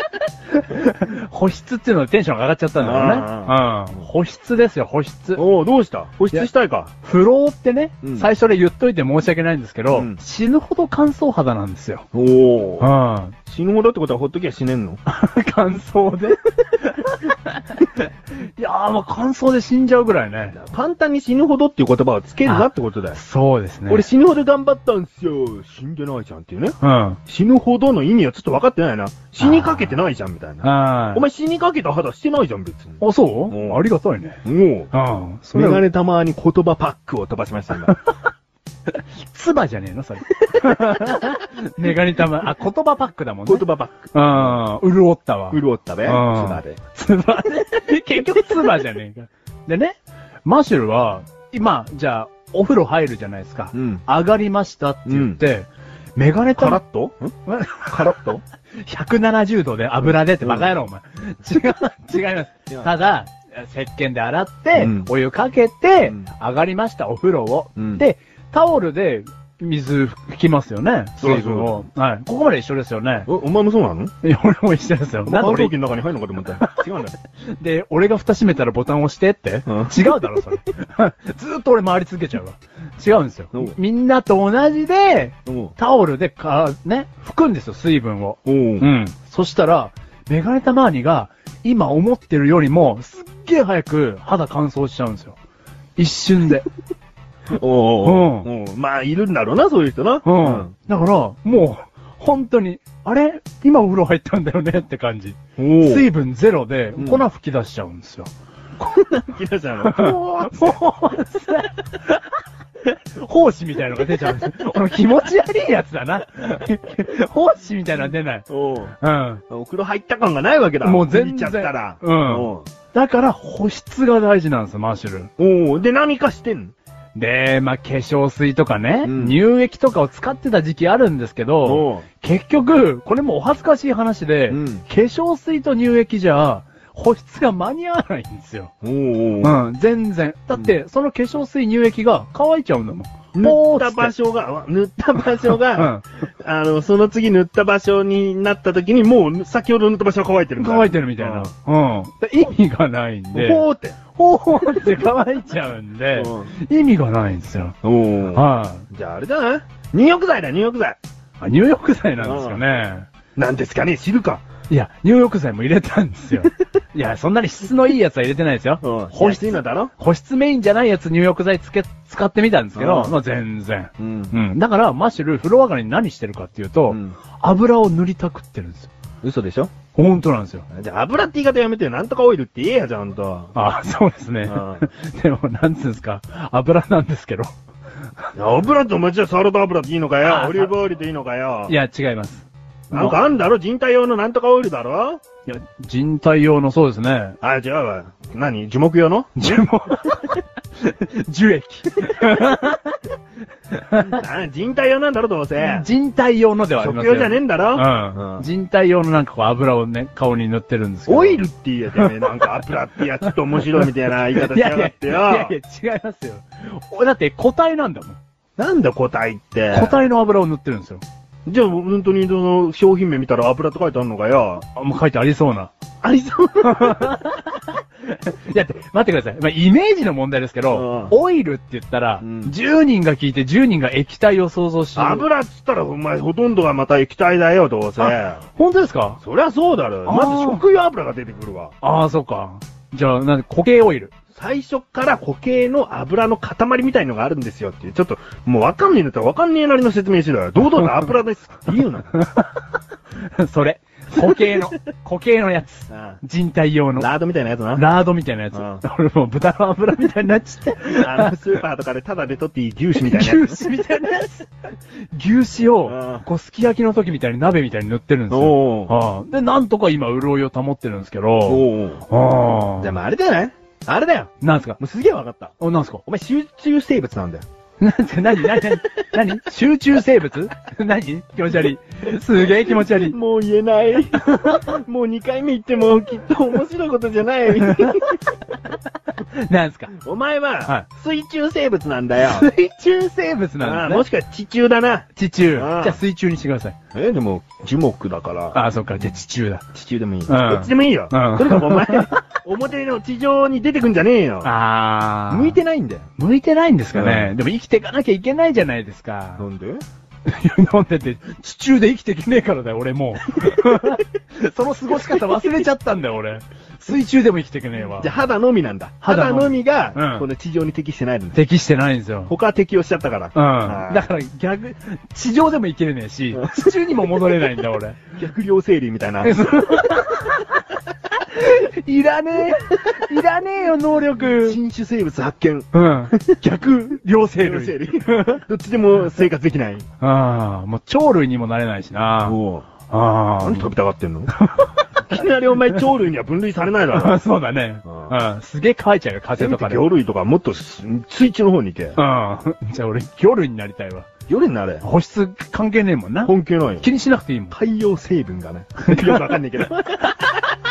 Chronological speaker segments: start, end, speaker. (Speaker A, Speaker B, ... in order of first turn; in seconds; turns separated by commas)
Speaker A: 0.5-5.4, Speaker B: 2.8-4.1, Speaker B: 5.4-6.9, Speaker A: 7.0-12.1, Speaker B: 8.0-8.3, Speaker B: 9.9-10.2, Speaker B: 12.1-12.9, Speaker A: 12.8-13.4, Speaker B: 13.5-15.0, Speaker A: 15.1-20.6, Speaker B: 20.5-23.2, Speaker A: 22.4-24.1, Speaker B: 23.9-33.8, Speaker A: 26.8-27.2, Speaker A: 29.4-30.0, Speaker A: 30.6-31.2, Speaker A: 33.0-35.8, Speaker B: 34.5-34.9, Speaker B: 35.5-38.0, Speaker A: 37.9-38.1, Speaker A: 38.9-56.8, Speaker B: 40.6-41.1, Speaker B: 43.5-44.6, Speaker B: 45.5-46.8, Speaker B: 53.7-54.0, Speaker B: 55.1-55.4, Speaker B: 56.5-57.3, Speaker A: 57.5-58.3, Speaker B: 57.9-58.4, Speaker A: 58.8-73.3, Speaker B: 60.4-60.7, Speaker B: 64.8-65.1, Speaker B: 67.8-68.0, Speaker B: 71.2-71.8, Speaker B: 73.3-74.1, Speaker A: 74.2-75.7, Speaker B: 75.2-77.1, Speaker A: 76.4-76.8, Speaker A: 77.6-95.4, Speaker B: 79.7-80.0, Speaker B: 85.5-85.7, Speaker B: 88.5-88.9, Speaker A: 96.0-96.7, Speaker B: 97.5-100.7, Speaker A: 98.0-98.5, Speaker A: 100.2-108.3, Speaker B: 105.6-106.1, Speaker B: 107.0-107.2, Speaker B: 108.8-110.8, Speaker A: 109.8-112.3, Speaker A: 112.9-118.5, Speaker B: 118.5-119.0, Speaker A: 119.0-119.4, Speaker B: 119.5-122.7, Speaker A: 120.8-125.3, Speaker B: 125.4-126.7, Speaker A: 127.2-138.7, Speaker B: 129.0-129.4, Speaker B: 131.6-132.1, Speaker B: 134.5-134.8, Speaker B: 138.8-139.6, Speaker A: 139.4-144.1, Speaker B: 143.3-151.5, Speaker A: 145.7-146.0, Speaker A: 150.6-153.6, Speaker B: 153.3-154.0, Speaker A: 154.2-157.8, Speaker B: 156.1-156.5, Speaker B: 157.8-161.0, Speaker A: 158.3-158.9, Speaker A: 161.4-163.1, Speaker B: 162.2-162.6, Speaker B: 163.4-164.4, Speaker A: 164.7-178.9, Speaker B: 168.8-169.9, Speaker B: 172.8-173.2, Speaker B: 174.0-174.4, Speaker B: 176.9-177.2, Speaker B: 179.2-179.7, Speaker A: 179.9-180.7, Speaker B: 180.7-183.5, Speaker A: 183.6-187.5, Speaker B: 184.4-184.9, Speaker B: 188.3-191.8, Speaker A: 190.2-190.7, Speaker A: 191.7-193.2, Speaker B: 192.9-195.2, Speaker A: 195.5-197.4, Speaker B: 197.4-199.6, Speaker A: 199.4-203.0, Speaker A: 203.7-204.2, Speaker B: 204.0-205.9, Speaker A: 205.6-211.4, Speaker B: 206.8-208.5, Speaker B: 211.1-215.5, Speaker A: 212.0-212.6, Speaker A: 213.3-218.2, Speaker B: 218.6-220.0, Speaker A: 219.7-221.0, Speaker B: 221.5-224.6, Speaker A: 224.7-225.7, Speaker B: 226.0-227.2, Speaker A: 226.6-235.3, Speaker B: 230.7-231.1, Speaker B: 232.2-232.6, Speaker B: 235.0-238.4, Speaker A: 238.0-239.2, Speaker B: 239.2-241.8, Speaker A: 240.1-240.6, Speaker A: 241.8-244.1, Speaker B: 244.3-252.1, Speaker A: 252.2-252.7, Speaker A: 253.2-257.1, Speaker B: 255.9-256.2, Speaker B: 257.0-257.8, Speaker A: 257.8-261.3, Speaker B: 258.5-258.8, Speaker B: 260.9-263.6, Speaker A: 263.0-264.5, Speaker A: 265.1-272.9, Speaker B: 265.8-266.3, Speaker B: 268.3-268.9, Speaker B: 271.5-272.1, Speaker B: 272.8-275.5, Speaker A: 274.4-274.8, Speaker A: 275.6-276.0, Speaker B: 276.1-277.4, Speaker A: 277.8-283.2, Speaker B: 282.4-288.2, Speaker A: 289.2-289.9, Speaker B: 289.9-292.5, Speaker A: 292.2-294.1, Speaker B: 293.6-296.0, Speaker A: 295.2-296.8, Speaker B: 296.9-298.6, Speaker A: 298.5-299.6, Speaker B: 299.7-304.5, Speaker A: 300.3-302.1, Speaker A: 304.4-305.6, Speaker B: 305.3-306.1, Speaker A: 306.2-309.5, Speaker B: 306.9-307.3, Speaker B: 309.4-309.8, Speaker A: 310.2-318.1, Speaker B: 315.0-315.7, Speaker B: 318.0-321.4, Speaker A: 319.0-320.3, Speaker A: 321.3-322.3, Speaker B: 322.3-324.1, Speaker A: 323.3-328.0, Speaker B: 326.3-326.8, Speaker B: 328.1-329.4, Speaker A: 329.2-334.6, Speaker B: 334.2-336.4, Speaker A: 335.7-338.4, Speaker B: 337.4-339.9, Speaker A: 340.0-342.4, Speaker B: 342.2-342.7, Speaker A: 342.9-343.7, Speaker B: 343.4-344.3, Speaker A: 344.3-344.9, Speaker B: 345.1-347.2, Speaker A: 346.9-349.9, Speaker B: 347.9-348.2, Speaker B: 349.4-352.0, Speaker A: 352.0-354.1, Speaker B: 354.3-354.9, Speaker A: 354.8-357.6, Speaker B: 356.2-356.9, Speaker B: 357.5-360.5, Speaker A: 358.8-359.4